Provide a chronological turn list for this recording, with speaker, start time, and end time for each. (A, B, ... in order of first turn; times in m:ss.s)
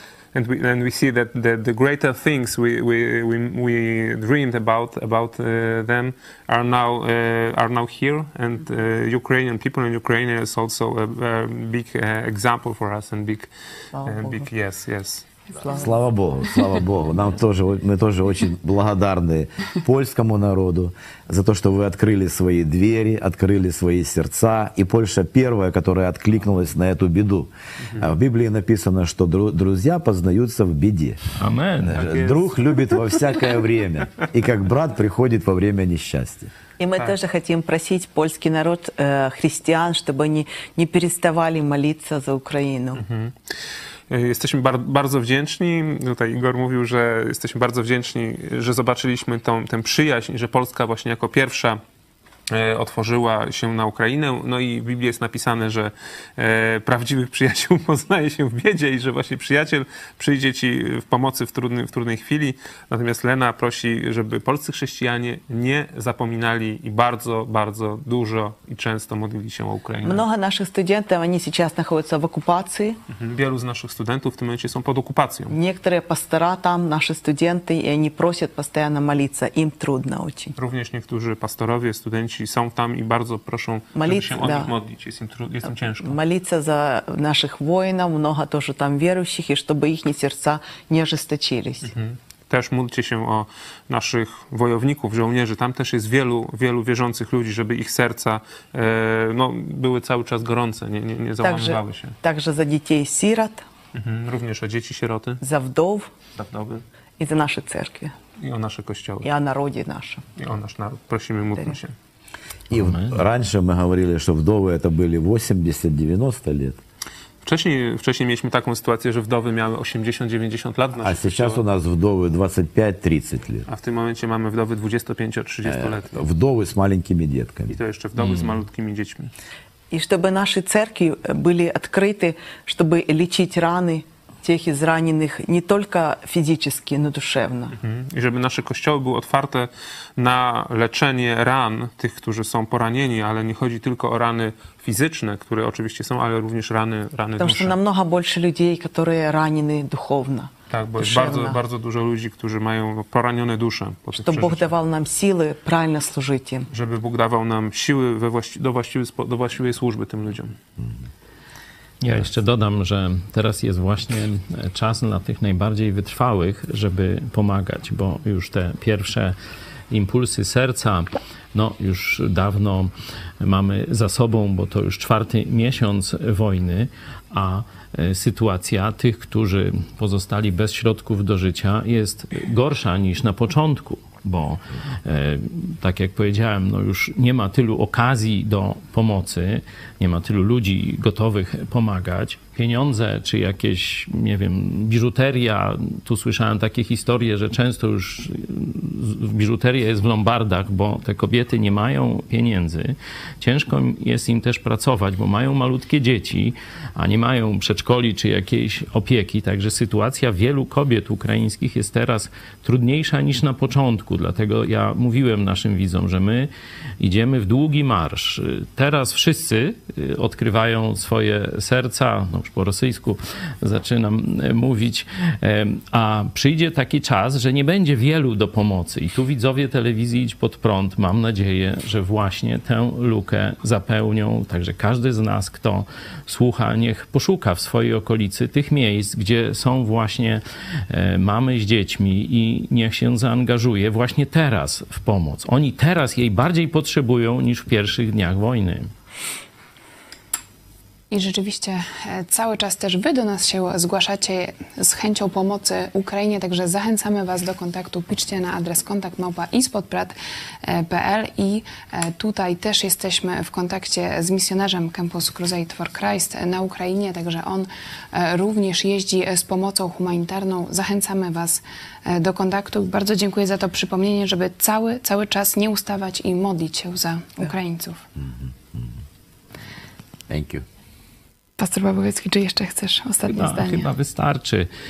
0:00.3-0:13.5 A
0:13.9-0:14.5 B
0:14.0-0:15.2 A
0:15.6-0:15.9 B
0:15.7-0:31.2 C
0:31.4-0:32.1 D
0:31.8-0:36.5 C
0:31.9-0:32.6 A
0:36.8-0:43.0 B
0:43.0-0:43.3 A
0:44.1-0:51.8 A
0:52.5-1:10.2 A
1:10.0-1:13.0 B
1:13.1-1:15.5 A
1:15.5-1:20.5 B
1:20.6-1:26.2 A
1:24.0-1:24.7 B
1:26.0-1:31.9 B
1:31.9-1:42.2 A
1:41.4-1:43.6 B
1:43.9-1:45.4 A
1:45.4-1:46.1 B
1:46.4-1:46.8 A
1:47.2-1:48.1 B
1:48.4-1:49.3 A
1:49.2-1:50.2 B
1:50.4-1:51.9 A
1:52.7-1:56.8 C
1:52.7-1:53.2 D
1:57.4-2:01.6 A
2:01.0-2:03.6 C
2:03.7-2:06.2 A
2:05.6-2:07.8 C
2:07.7-2:09.3 A
2:08.2-2:08.6 D
2:09.9-2:17.8 B
2:17.8-2:27.8 A
2:27.4-2:31.6 B
2:30.7-2:34.7 A
2:34.2-2:36.7 B
2:36.7-2:40.6 A
2:42.0-2:49.4 D
2:49.9-4:08.9 D
4:11.1-4:38.0 E
4:38.2-4:38.9 C
4:40.3-4:40.6 C
4:41.6-4:43.9 E
4:43.2-4:44.7 D